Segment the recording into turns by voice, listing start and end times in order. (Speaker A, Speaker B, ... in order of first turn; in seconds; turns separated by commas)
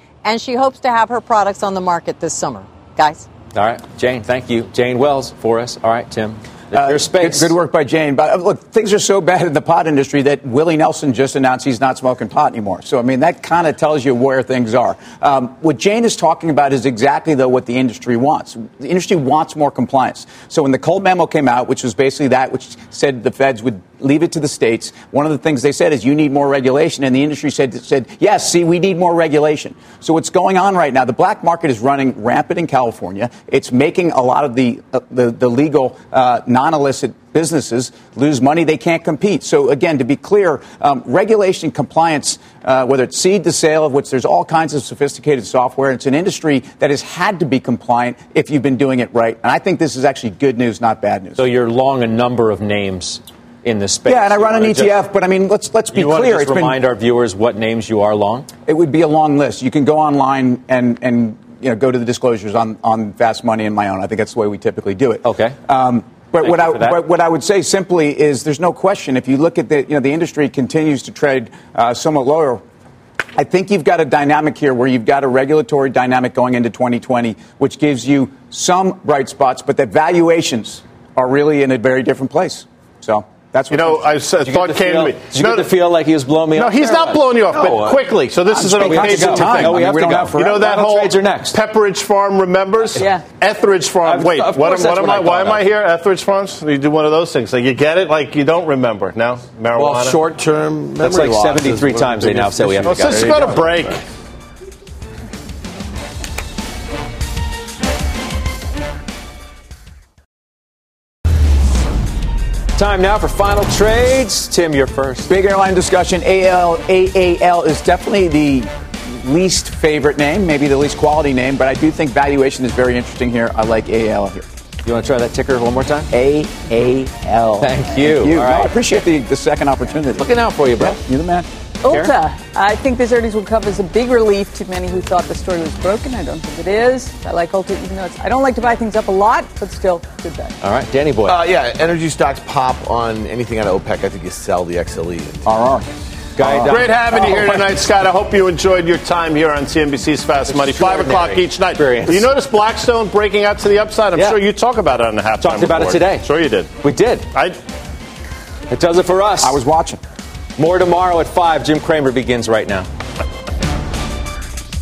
Speaker A: 0.2-3.2, Speaker B: 3.5-7.5, Speaker C: 6.7-51.4, Speaker B: 51.4-55.0, Speaker C: 54.0-56.8, Speaker B: 55.9-58.5, Speaker C: 58.6-72.6, Speaker B: 65.2-65.6, Speaker B: 66.4-67.0, Speaker C: 73.3-84.0, Speaker D: 83.7-85.7, Speaker B: 84.4-87.6, Speaker D: 86.5-100.2, Speaker C: 88.5-90.7, Speaker B: 88.7-91.6, Speaker E: 93.0-93.2, Speaker B: 94.0-95.6, Speaker F: 99.7-103.8, Speaker B: 101.0-103.7, Speaker D: 102.8-104.0, Speaker B: 112.8-115.3, Speaker C: 115.3-124.5, Speaker B: 124.8-126.1, Speaker C: 126.1-131.5, Speaker B: 127.6-128.8, Speaker B: 130.2-131.0, Speaker E: 131.8-140.6, Speaker B: 131.9-132.1, Speaker B: 140.6-141.4, Speaker F: 141.2-145.4, Speaker C: 145.4-145.8, Speaker B: 146.4-147.4, Speaker C: 146.4-147.7, Speaker D: 146.7-156.7, Speaker B: 150.5-152.3, Speaker B: 155.4-156.2, Speaker B: 156.8-157.3, Speaker B: 158.7-159.6, Speaker C: 159.4-160.0, Speaker B: 160.6-162.9